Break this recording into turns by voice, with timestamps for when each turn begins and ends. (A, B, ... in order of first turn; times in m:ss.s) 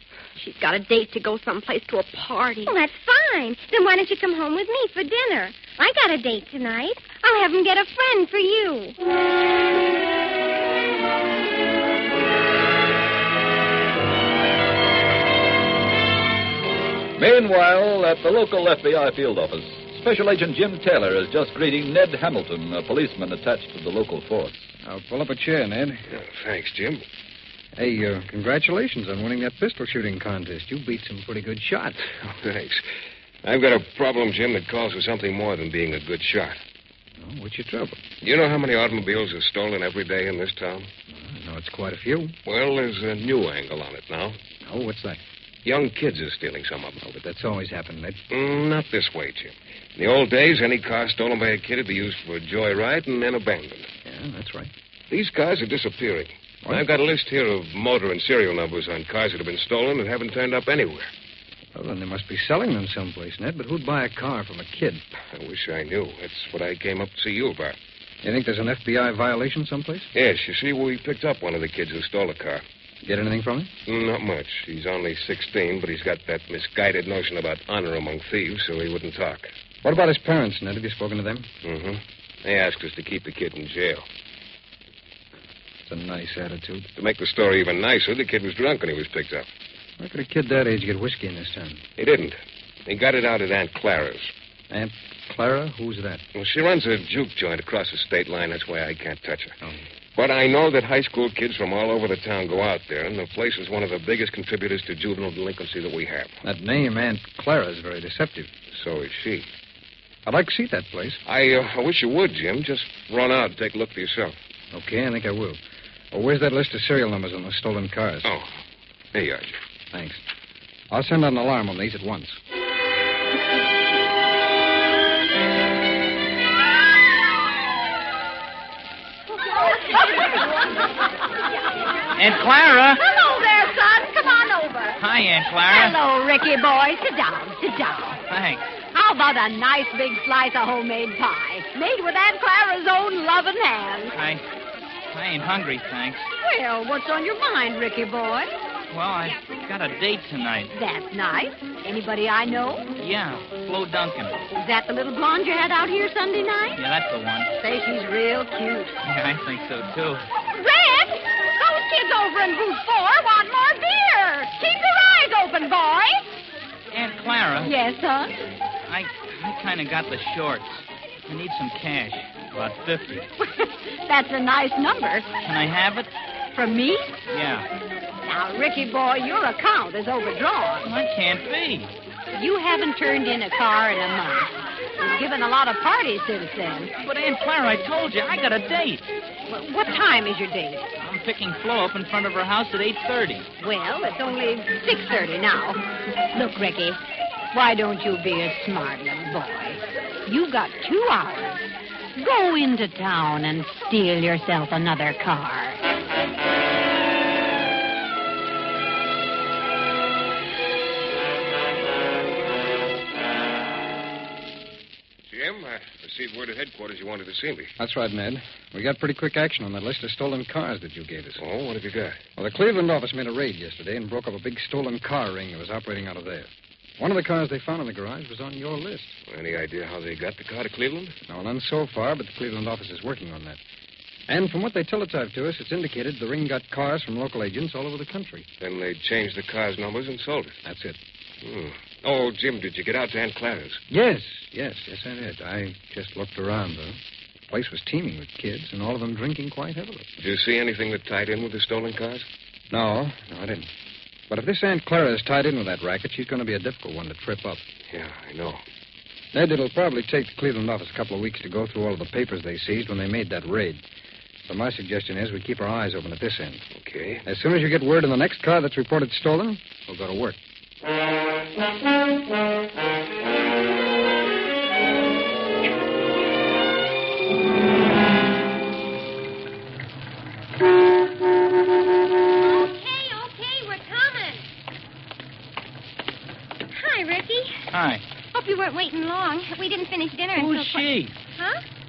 0:00.4-0:02.8 A
0:02.7-0:09.0 B
0:17.2-0:24.7 C
0:24.8-0:26.0 D
0:26.1-0:27.0 E
0:27.8-0:32.1 D
0:32.1-0:32.8 E
0:33.4-0:36.6 E
0:37.2-0:38.0 D
0:38.2-0:40.9 E
0:41.1-0:42.4 D
0:42.4-0:44.4 E
0:44.6-0:45.2 D
0:45.6-0:47.0 E
0:47.0-0:48.2 D
0:48.3-0:53.9 E
0:54.0-0:54.7 D
0:55.1-1:01.1 E
1:01.7-1:05.0 D
1:05.3-1:07.8 E
1:08.2-1:10.1 D
1:10.1-1:12.6 E
1:13.0-1:13.7 D
1:13.9-1:19.5 E
1:19.8-1:21.5 D
1:21.6-1:24.1 E
1:25.9-1:26.9 D
1:27.0-1:29.5 E
1:30.0-1:31.8 D
1:32.0-1:34.3 E
1:34.7-1:36.2 D
1:36.3-1:39.6 E
1:40.2-1:46.4 E
1:46.4-1:48.5 D
1:48.7-1:49.5 E
1:50.2-1:51.2 D
1:51.3-1:54.4 E
1:54.7-1:55.6 D
1:56.1-1:58.3 D
1:58.2-1:58.5 E
1:59.1-1:59.6 E
1:59.9-2:00.2 D
2:00.9-2:02.4 D
2:09.5-2:10.7 F
2:12.2-2:13.0 G
2:13.0-2:15.0 F
2:15.0-2:16.0 G
2:15.7-2:18.2 F
2:18.3-2:18.7 G
2:18.9-2:24.1 F
2:24.1-2:24.4 G
2:25.1-2:26.3 G
2:26.4-2:28.5 F
2:28.9-2:30.7 G
2:30.7-2:32.9 F
2:33.0-2:34.5 G
2:34.5-2:36.8 F
2:36.8-2:37.5 G
2:37.6-2:39.0 F
2:39.0-2:40.2 G
2:40.5-2:46.3 F
2:46.9-2:47.7 G
2:47.6-2:48.3 F
2:48.9-2:53.3 G
2:53.4-2:55.3 F
2:55.4-2:56.1 G
2:56.5-2:57.2 F
2:57.3-2:57.7 G
2:58.2-3:00.9 F
3:00.8-3:01.9 G
3:02.3-3:06.9 F
3:07.0-3:09.1 G
3:09.5-3:10.9 F
3:11.0-3:13.5 G
3:13.6-3:17.0 F
3:17.5-3:21.6 F
3:22.2-3:25.8 F
3:35.3-3:37.8 E
3:37.8-3:41.4 D
3:41.4-3:42.2 E
3:42.4-3:49.2 D
3:49.3-3:51.2 E
3:51.3-3:53.6 D
3:54.3-3:58.5 D
3:58.6-4:00.6 E
4:00.6-4:01.0 D
4:01.4-4:03.8 E
4:03.9-4:10.1 D
4:10.2-4:12.3 E
4:12.7-4:13.7 D
4:14.3-4:17.6 D
4:17.9-4:18.6 E
4:19.3-4:23.8 D
4:24.5-4:26.6 D
4:26.8-4:27.2 E
4:27.2-4:30.4 D
4:42.4-4:44.5 B
4:46.7-4:47.6 B
4:47.7-4:48.0 G
4:48.3-4:51.6 B
4:50.4-4:51.1 G